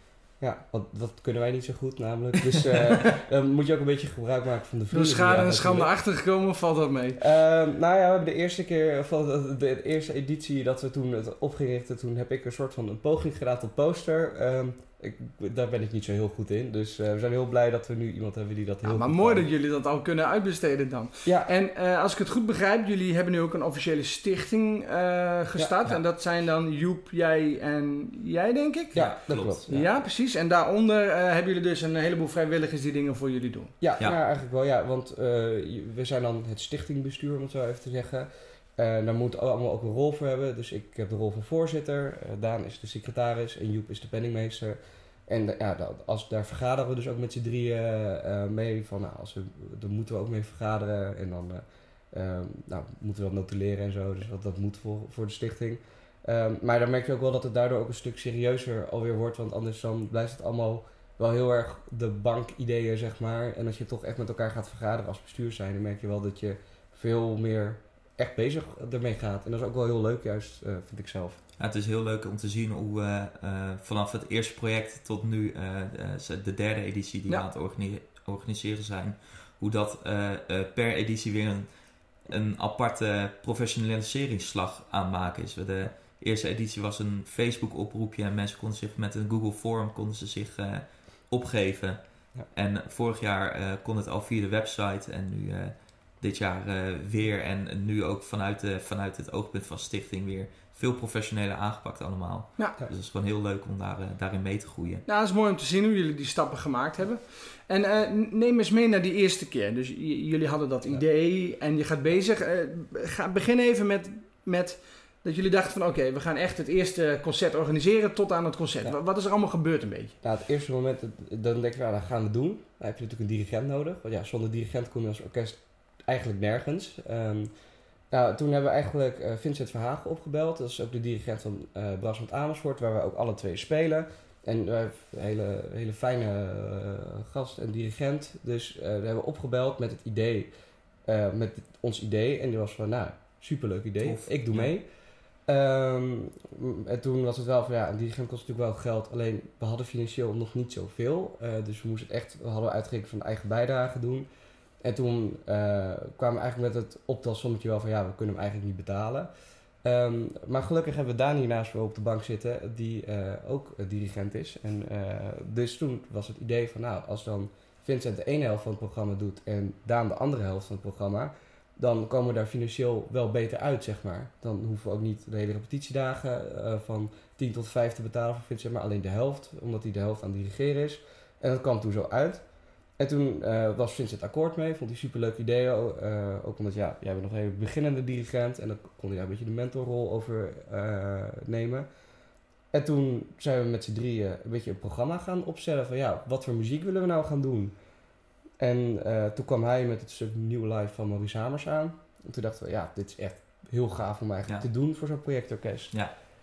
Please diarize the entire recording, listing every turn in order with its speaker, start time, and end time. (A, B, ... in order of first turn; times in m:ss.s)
0:00.4-0:05.9 A
0:04.9-0:07.2 B
0:07.2-0:19.4 A
0:18.8-0:29.0 B
0:21.2-0:21.5 A
0:28.9-0:30.0 A
0:28.9-0:29.6 C
0:29.7-0:33.7 B
0:33.8-1:11.4 A
1:11.6-1:21.7 C
1:22.2-1:32.0 C
1:32.5-1:45.0 C
1:45.1-2:00.1 B
2:00.2-2:07.5 A
2:08.1-2:20.5 A
2:21.0-2:24.8 A
2:24.0-2:24.7 C
2:25.4-2:34.3 A
2:34.8-2:39.3 A
2:39.8-3:02.4 A
3:03.0-3:11.8 A
3:12.7-3:17.8 A
3:18.6-3:26.0 A